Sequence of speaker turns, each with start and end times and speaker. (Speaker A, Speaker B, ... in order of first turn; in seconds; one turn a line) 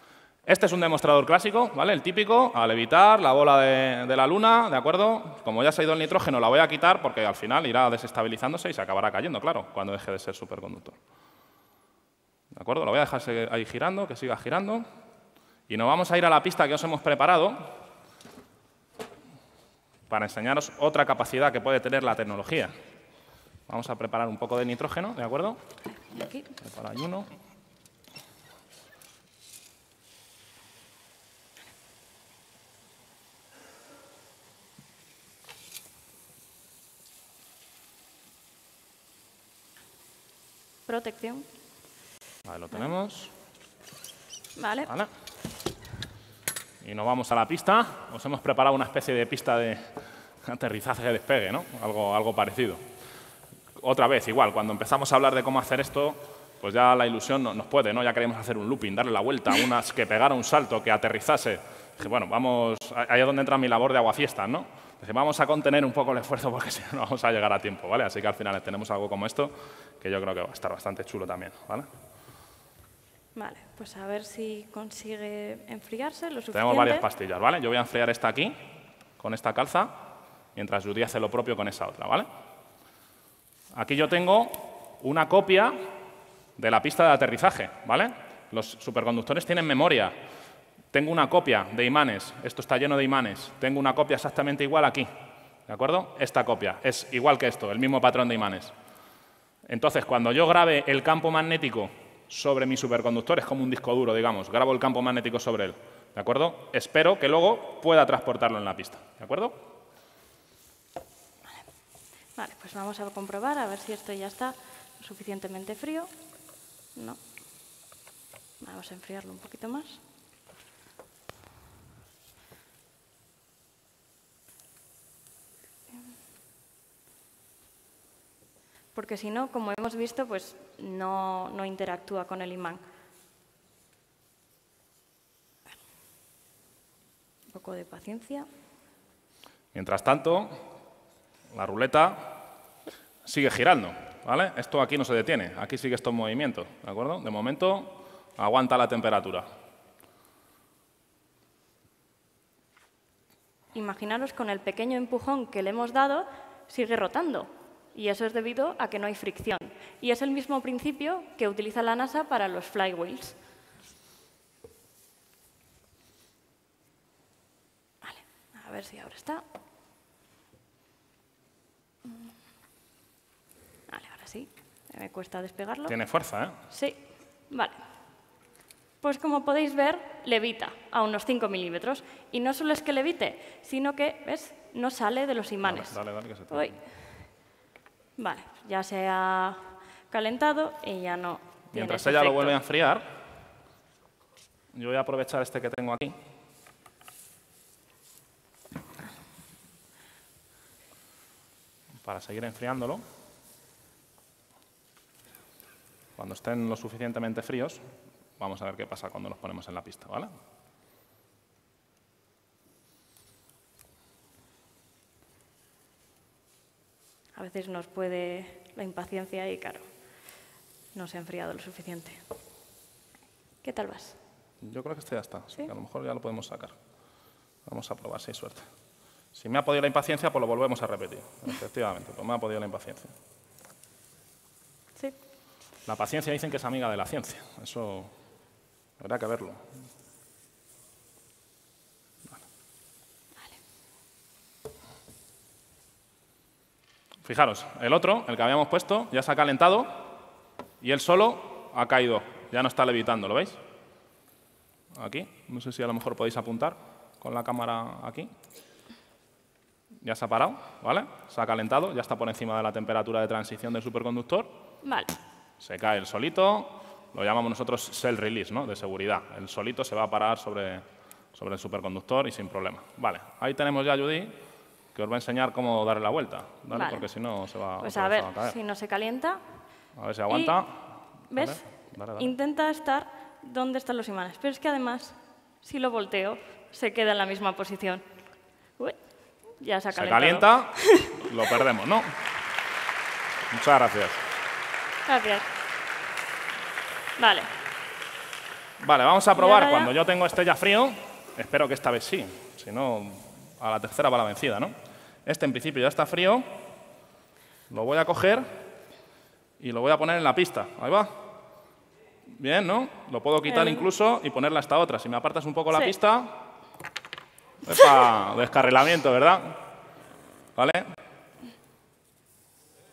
Speaker A: 0.5-11.0
Speaker A: 12.5-14.8
Speaker A: 15.7-17.7
Speaker A: 20.1-22.7
Speaker A: 23.7-25.6
Speaker B: 26.0-26.5
Speaker A: 26.6-27.3
Speaker B: 40.9-41.5
Speaker A: 42.4-43.3
Speaker B: 44.5-44.9
Speaker A: 46.8-52.8
Speaker A: 53.8-71.9
Speaker B: 73.3-77.0
Speaker A: 76.5-78.6
Speaker A: 79.2-79.9
Speaker A: 80.5-82.3
Speaker A: 83.7-85.7
Speaker A: 86.6-90.1
Speaker A: 90.9-95.1
Speaker A: 95.7-98.7
Speaker A: 99.7-109.6
Speaker B: 112.4-116.1
Speaker B: 118.6-120.0
Speaker B: 128.9-132.8
Speaker B: 137.5-138.5
Speaker A: 139.7-140.6
Speaker A: 141.5-142.4
Speaker A: 143.2-149.4
Speaker B: 153.7-163.3
Speaker B: 168.0-169.4
Speaker B: 173.9-175.9
Speaker A: 175.9-176.6
Speaker B: 176.7-177.0
Speaker B: 177.5-177.8
Speaker B: 179.0-185.9
Speaker A: 185.6-186.8
Speaker B: 186.5-186.8
Speaker B: 188.2-192.6
Speaker A: 191.7-193.1
Speaker A: 194.7-196.2
Speaker A: 202.0-203.0
Speaker A: 206.2-207.8
Speaker A: 208.4-210.3
Speaker B: 217.3-219.8
Speaker B: 220.9-222.2
Speaker B: 223.6-224.2
Speaker A: 224.6-226.8
Speaker A: 227.7-228.7
Speaker A: 229.3-233.1
Speaker A: 235.9-238.1
Speaker A: 239.0-239.7
Speaker A: 247.2-250.1
Speaker A: 250.8-253.6
Speaker A: 254.9-258.3
Speaker A: 260.0-264.5
Speaker B: 264.8-265.2
Speaker A: 265.6-274.3
Speaker A: 274.9-278.6
Speaker B: 276.7-277.1
Speaker B: 277.8-279.4
Speaker A: 279.9-282.3
Speaker B: 280.3-280.6
Speaker B: 281.3-288.0
Speaker B: 289.6-291.2
Speaker A: 289.9-292.1
Speaker A: 293.5-294.2
Speaker B: 295.1-295.5
Speaker B: 297.2-297.5
Speaker A: 298.8-304.7
Speaker B: 299.4-299.9
Speaker A: 305.2-306.5
Speaker A: 307.7-308.5
Speaker A: 309.6-311.1
Speaker A: 312.3-316.4
Speaker B: 313.5-313.9
Speaker A: 317.6-319.6
Speaker A: 320.6-320.8